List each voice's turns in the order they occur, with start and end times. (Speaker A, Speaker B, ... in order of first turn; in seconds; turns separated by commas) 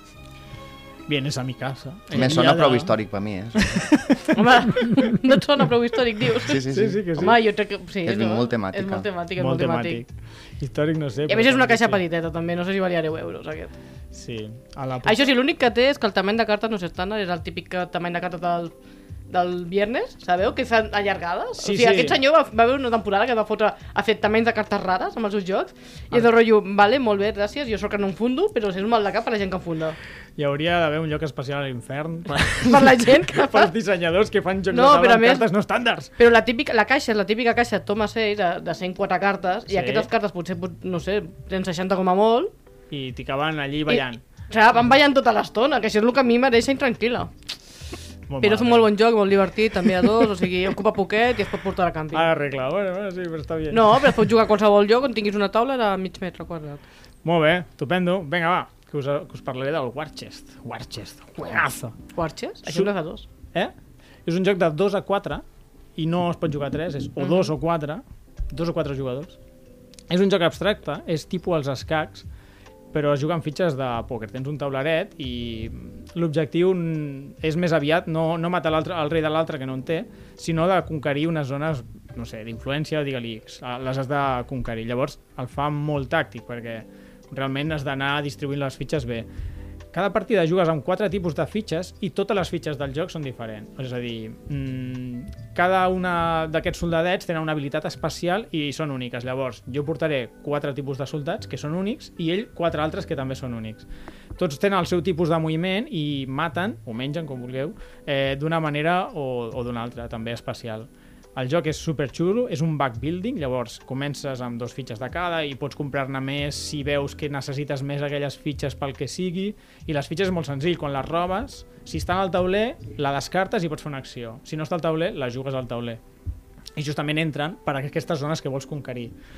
Speaker A: 1.1-3.0, Speaker B: 2.1-3.8, Speaker A: 3.5-5.0, Speaker C: 4.3-6.6, Speaker B: 6.4-7.4, Speaker A: 6.6-7.4, Speaker C: 7.2-10.0, Speaker B: 8.0-9.1, Speaker A: 9.4-12.0, Speaker C: 11.3-13.7, Speaker A: 14.1-15.3, Speaker C: 15.0-18.7, Speaker C: 19.3-30.0, Speaker A: 21.6-22.2, Speaker A: 30.4-36.1, Speaker C: 32.6-33.7, Speaker C: 34.7-35.5, Speaker C: 36.2-42.5, Speaker A: 39.7-40.1, Speaker A: 42.9-44.2, Speaker C: 43.9-47.3, Speaker A: 48.3-48.9, Speaker C: 48.4-52.3, Speaker A: 52.1-54.2, Speaker C: 53.7-56.8, Speaker A: 57.2-62.0, Speaker C: 62.1-63.3, Speaker A: 62.7-62.9, Speaker A: 64.3-65.4, Speaker A: 66.0-69.4, Speaker C: 67.2-67.5, Speaker A: 70.1-72.3, Speaker A: 72.9-89.3, Speaker A: 89.9-103.9, Speaker A: 104.4-126.0, Speaker A: 126.8-129.1